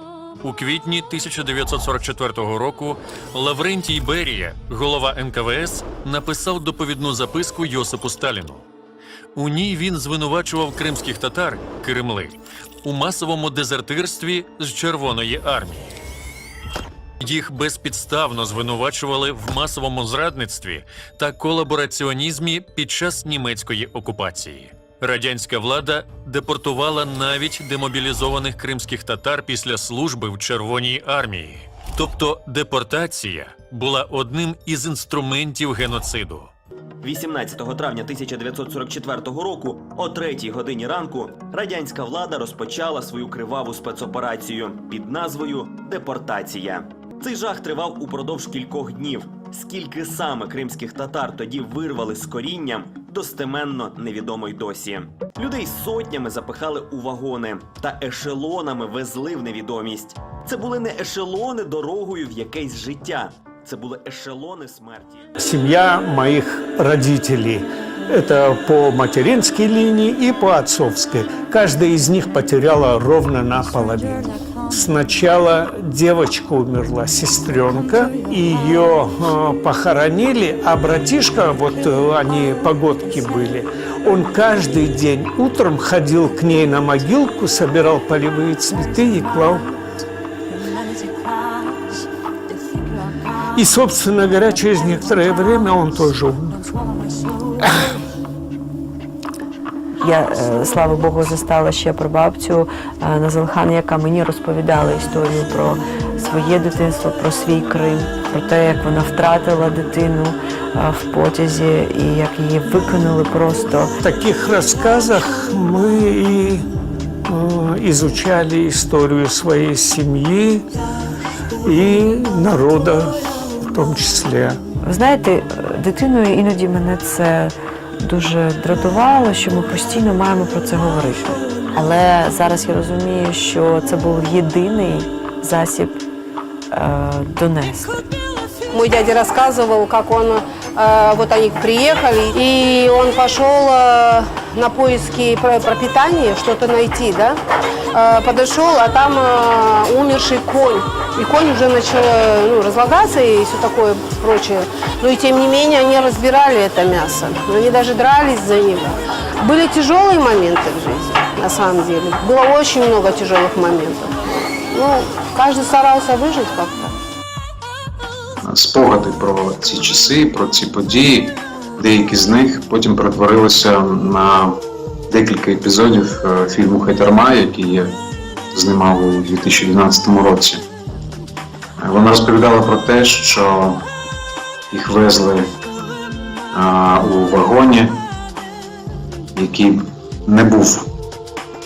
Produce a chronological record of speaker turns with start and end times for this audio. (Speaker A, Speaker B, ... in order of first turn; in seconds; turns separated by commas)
Speaker A: 0.4-8.7, Speaker A: 9.3-16.0, Speaker A: 17.2-36.5, Speaker B: 37.0-65.2, Speaker C: 65.4-89.8, Speaker C: 93.5-97.9, Speaker D: 100.0-113.9, Speaker C: 114.0-116.7, Speaker C: 117.3-120.7, Speaker C: 121.6-124.6, Speaker D: 124.8-136.0, Speaker D: 136.7-138.1, Speaker E: 138.7-147.4, Speaker E: 147.9-164.1, Speaker E: 164.7-166.9, Speaker F: 168.4-177.9, Speaker F: 178.5-180.6, Speaker F: 181.8-183.8, Speaker F: 184.7-185.5, Speaker F: 186.5-188.0, Speaker F: 189.3-190.9